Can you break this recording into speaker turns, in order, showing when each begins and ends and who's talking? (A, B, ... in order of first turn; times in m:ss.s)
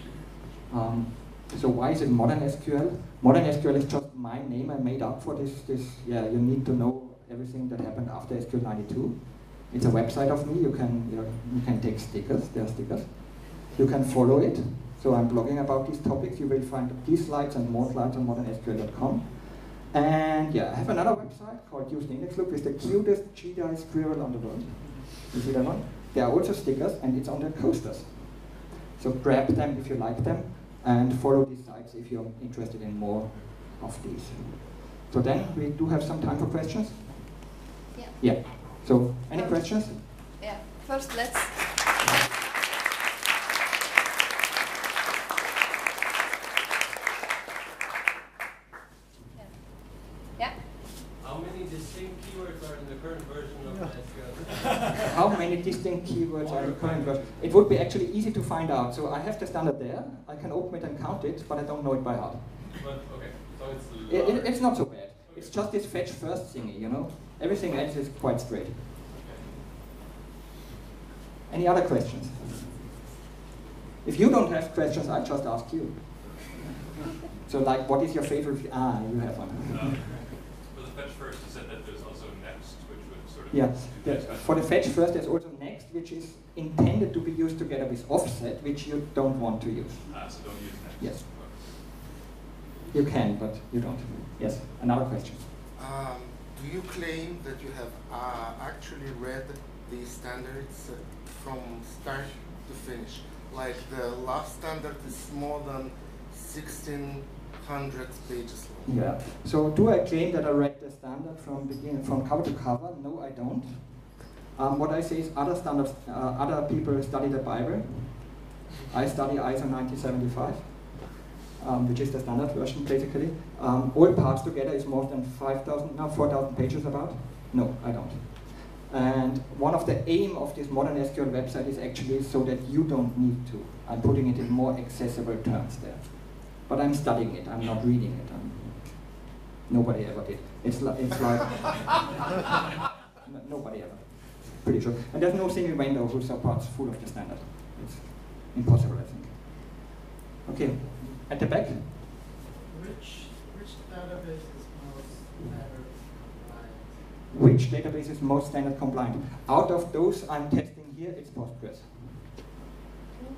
0:00.7-0:37.4 A
0:37.9-0:42.4 B
0:38.2-0:40.0 A
0:49.3-0:50.6 B
0:51.2-0:55.0 C
0:55.0-1:02.7 A
0:56.4-0:57.4 C
1:03.0-1:04.5 D
1:04.1-1:08.8 A
1:09.1-1:09.5 D
1:11.5-1:12.8 A
1:14.0-1:16.6 A
1:17.4-1:20.1 A
1:19.7-1:24.8 D
1:23.5-1:31.2 A
1:30.1-1:31.7 D
1:32.9-1:35.4 A
1:35.7-1:49.0 E
1:48.8-2:22.1 A
2:23.2-2:29.9 A
2:30.4-2:31.9 A
2:30.6-2:31.2 F
2:32.6-2:37.3 F
2:37.3-2:42.3 A